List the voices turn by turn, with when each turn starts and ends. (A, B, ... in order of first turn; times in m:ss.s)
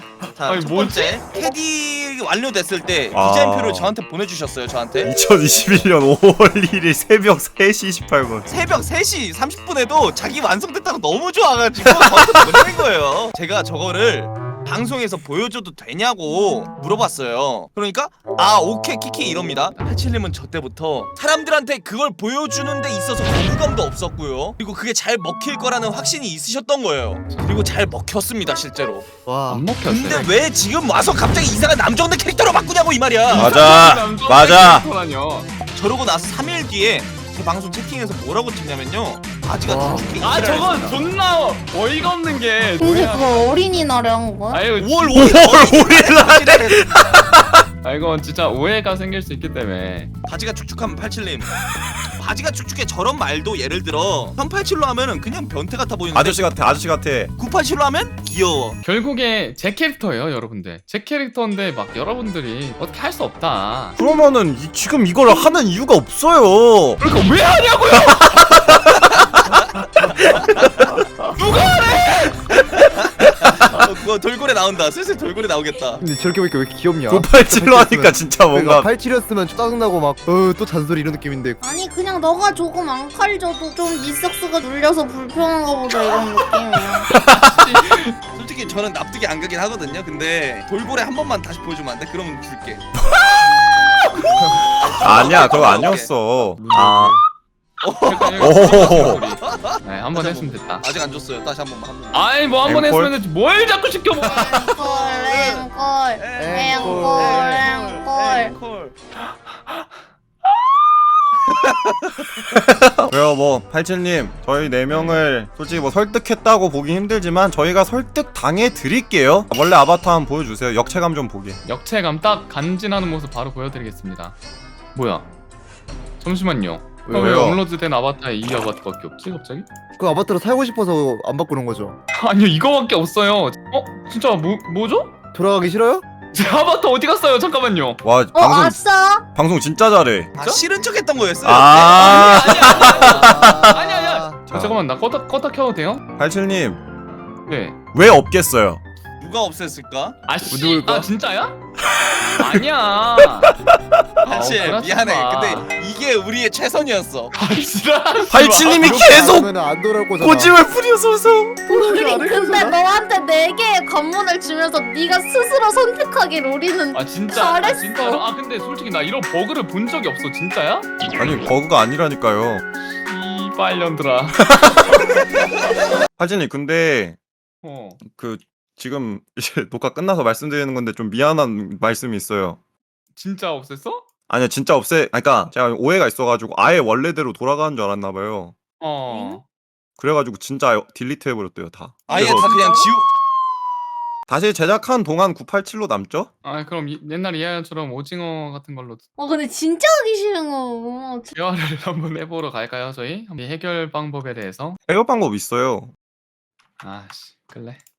0:00.3-0:05.2 A
0:00.4-0:01.2 B
0:03.1-0:04.0 C
0:05.0-0:08.5 C
0:08.5-0:29.0 A
0:11.8-0:12.7 C
0:29.2-0:29.6 D
0:29.5-0:30.3 B
0:29.8-0:33.6 A
0:33.3-0:35.5 B
0:33.3-0:34.8 C
0:35.7-0:41.0 A
0:39.6-0:40.0 D
0:40.2-0:43.5 B
0:42.8-0:44.6 E
0:44.5-0:45.2 B
0:44.8-0:47.2 A
0:45.1-0:47.6 C
0:47.8-0:50.1 B
0:50.2-0:51.6 A
0:52.1-0:56.4 A
0:56.1-0:57.3 C
0:57.4-0:58.8 A
0:58.8-1:04.0 B
1:04.0-1:07.0 C
1:07.0-1:08.5 B
1:08.4-1:08.8 C
1:11.3-1:12.4 B
1:12.8-1:16.0 A
1:16.0-1:21.6 D
1:17.1-1:18.9 C
1:21.6-1:27.1 E
1:27.1-1:27.6 C
1:27.2-1:28.2 B
1:28.3-1:32.8 A
1:33.0-1:33.4 C
1:34.8-1:36.1 A
1:35.0-1:37.2 C
1:36.6-1:37.2 D
1:37.8-1:42.3 A
1:38.0-1:40.9 B
1:38.4-1:39.2 C
1:42.1-1:44.6 B
1:42.6-1:43.2 C
1:44.2-1:48.5 E
1:44.4-1:48.9 A
1:46.3-1:47.6 D
1:51.6-1:52.2 A
1:52.5-2:01.6 C
1:54.9-1:55.2 B
2:01.6-2:04.3 B
2:04.9-2:05.3 B
2:06.2-2:09.6 B
2:07.1-2:07.6 C
2:10.0-2:12.0 D
2:12.1-2:15.1 B
2:15.3-2:16.0 D
2:16.3-2:18.0 B
2:18.0-2:20.4 C
2:18.3-2:19.2 E
2:20.4-2:23.1 A
2:21.4-2:23.8 C
2:21.9-2:26.0 B
2:23.1-2:24.4 D
2:24.5-2:24.8 C
2:26.2-2:26.8 C
2:27.5-2:27.8 B
2:27.9-2:28.8 C
2:29.2-2:30.2 A
2:30.2-2:31.6 B
2:30.5-2:31.1 D
2:31.9-2:32.6 C
2:32.4-2:33.5 B
2:33.2-2:34.0 C
2:34.2-2:37.3 A
2:34.3-2:35.7 B
2:37.3-2:39.0 B
2:38.3-2:39.5 C
2:38.7-2:40.6 D
2:40.2-2:41.6 C
2:41.6-2:48.2 E
2:41.7-2:42.8 D
2:46.9-2:50.9 B
2:51.2-2:52.6 C
2:53.0-2:54.4 B
2:54.6-2:55.2 C
2:56.2-2:57.2 C
2:57.6-2:58.0 B
2:58.0-3:02.6 C
3:03.1-3:04.0 B
3:04.3-3:08.6 C
3:08.8-3:09.4 B
3:09.1-3:09.4 E
3:10.0-3:12.5 C
3:12.0-3:13.1 A
3:12.1-3:12.9 E
3:14.3-3:16.3 C
3:16.4-3:19.0 B
3:19.2-3:21.3 E
3:21.3-3:24.8 B
3:24.9-3:25.9 C
3:26.8-3:27.8 B